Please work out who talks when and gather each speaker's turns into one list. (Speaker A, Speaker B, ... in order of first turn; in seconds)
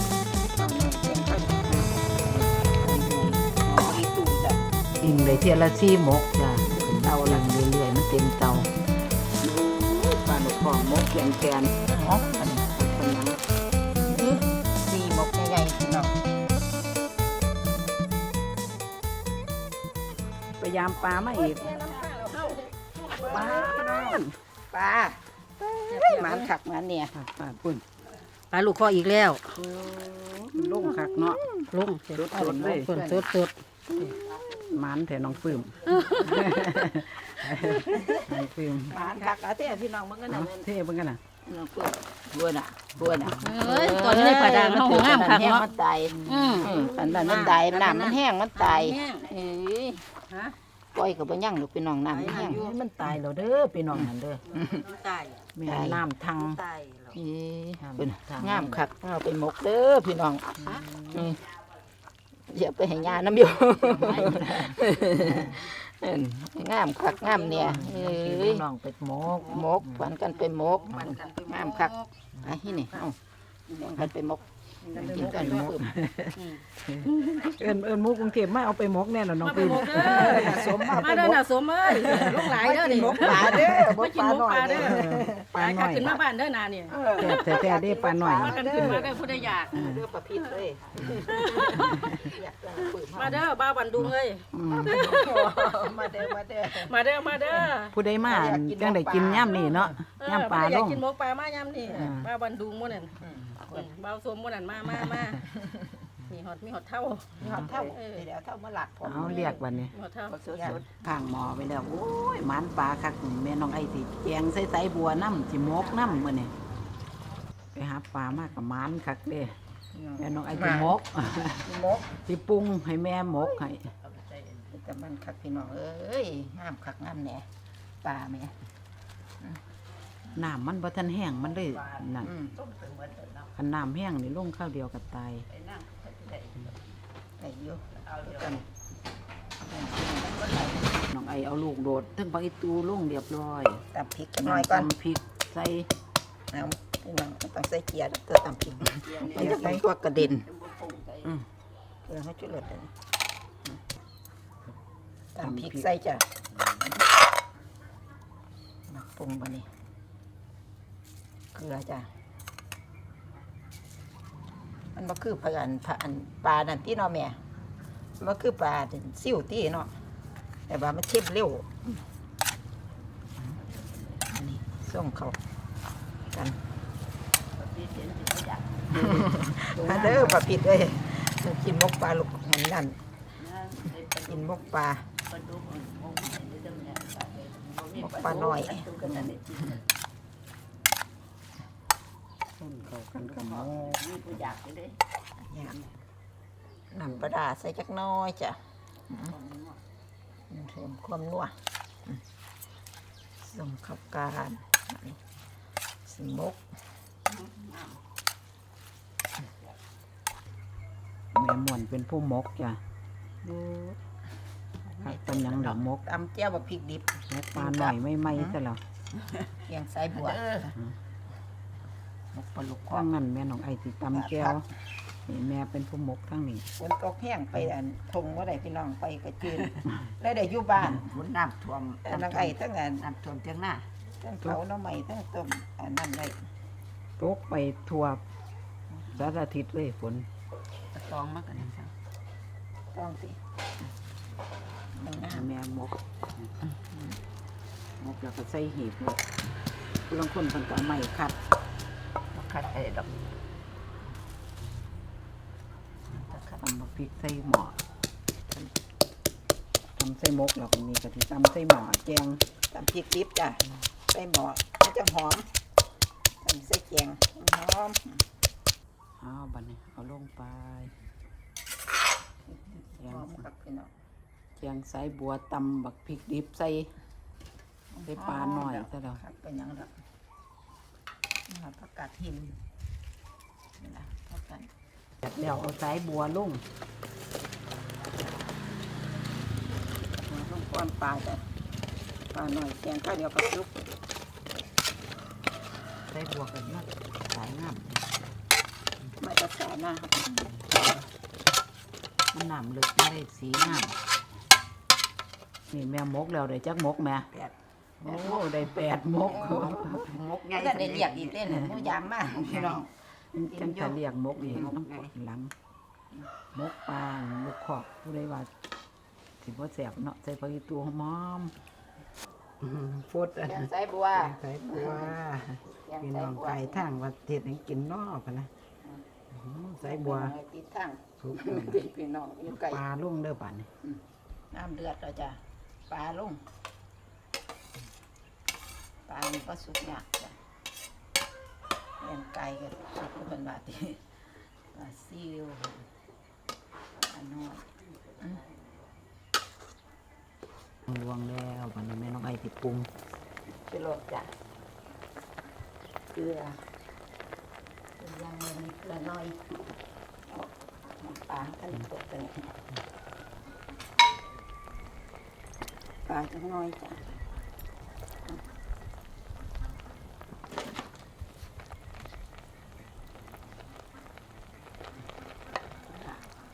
Speaker A: 0.5-4.6, 6.6-7.5, 11.9-12.7, 14.1-16.1, 23.2-24.2, 24.7-27.1, 30.6-31.7, 33.9-34.8, 37.9-40.7, 41.4-50.0, 50.9-52.6, 53.9-54.8, 55.6-56.0, 57.1-60.5, 61.1-61.4, 62.5-68.6, 69.3-73.2, 73.8-74.4, 74.9-75.9, 79.8-81.1, 82.1-85.5, 86.9-93.4, 94.7-97.7, 98.2-100.0, 103.2-103.9, 105.5-106.0, 107.4-109.5, 110.3-110.8, 119.9-122.1, 124.7-127.5, 128.0-128.5, 132.2-132.6, 137.4-138.6, 139.7-140.8, 143.9-144.9, 146.5-150.5, 152.1-152.9, 155.3-156.2, 158.9-159.7, 161.5-162.1, 164.9-167.4, 168.2-169.9, 170.7-172.0, 174.3-175.4, 176.3-176.6, 178.9-182.9, 184.2-185.1, 187.9-189.2, 195.4-195.8, 196.9-198.6, 199.1-199.3, 200.5-201.5, 203.4-205.2, 206.0-206.6, 214.9-218.6, 219.6-220.8, 222.3-223.1, 224.1-224.6, 226.8-231.2, 232.0-233.1, 234.2-236.4, 238.9-239.2, 242.9-243.4, 244.9-245.5, 246.8-247.2, 262.7-265.4, 266.4-268.2, 272.5-273.9, 277.9-279.9, 281.5-282.6, 283.8-284.7, 290.2-291.4, 292.3-293.7, 299.2-300.8, 309.3-312.9, 313.5-314.0, 323.4-325.2, 325.7-326.9, 329.8-332.8, 334.5-336.4, 339.1-340.4, 342.0-344.0, 344.7-345.8, 347.1-347.7, 353.6-354.3, 356.1-356.6, 358.0-359.4, 360.3-362.5, 366.1-367.0, 375.9-376.2
Speaker B: 5.0-8.7, 9.4-11.7, 12.7-13.4, 20.5-21.8, 23.2-24.3, 27.1-27.8, 29.6-31.4, 32.1-33.1, 34.7-39.0, 40.3-41.2, 43.0-43.5, 46.1-47.4, 52.2-54.4, 55.5-56.6, 57.8-58.8, 60.6-61.3, 63.9-65.6, 67.5-70.1, 70.9-71.2, 74.9-82.6, 83.1-84.0, 84.7-86.2, 87.2-90.0, 91.7-92.2, 94.0-95.1, 97.9-101.0, 101.9-102.3, 104.8-105.4, 107.4-107.9, 109.0-110.0, 110.6-116.5, 117.7-119.5, 120.2-121.7, 122.2-123.9, 130.3-132.3, 133.6-135.5, 141.0-143.8, 144.4-145.9, 149.2-149.8, 155.4-155.9, 156.5-156.9, 179.7-180.4, 192.6-194.3, 211.3-212.8, 213.4-214.0, 215.0-216.0, 217.3-218.8, 222.9-224.6, 225.2-226.7, 237.2-238.2, 239.1-240.2, 245.3-246.5, 248.0-249.3, 250.1-251.4, 256.4-257.8, 260.0-262.4, 269.2-270.9, 273.0-273.5, 274.6-276.9, 278.1-279.2, 285.2-286.6, 296.1-298.0, 302.3-303.9, 305.7-307.3, 308.0-310.1, 311.4-312.8, 313.3-315.5, 316.5-318.5, 319.4-321.5, 322.6-328.5, 329.3-330.3, 331.2-331.8, 332.5-333.7, 350.9-352.9
Speaker C: 21.3-24.2, 25.9-26.5, 28.5-29.6, 31.7-34.2, 35.9-36.5, 39.0-39.3, 43.4-45.7, 46.2-49.3, 50.3-50.5, 52.1-52.8, 54.5-55.5, 56.4-57.1, 70.8-72.1, 76.4-77.5, 79.4-85.0, 85.5-87.2, 88.4-89.7, 91.2-92.2, 93.1-95.8, 96.7-97.9, 100.2-103.2, 103.7-105.4, 106.3-108.2, 109.2-110.7
Speaker D: 115.7-116.2, 124.0-124.7, 131.3-133.5, 135.5-136.8, 137.9-138.6, 140.2-140.7, 149.0-151.3, 173.7-174.0, 177.5-179.1, 183.4-184.6, 185.3-189.8, 193.1-195.0, 199.3-199.8, 207.3-208.0, 231.0-233.8, 240.9-241.9, 252.3-253.2, 309.6-311.4, 314.4-314.9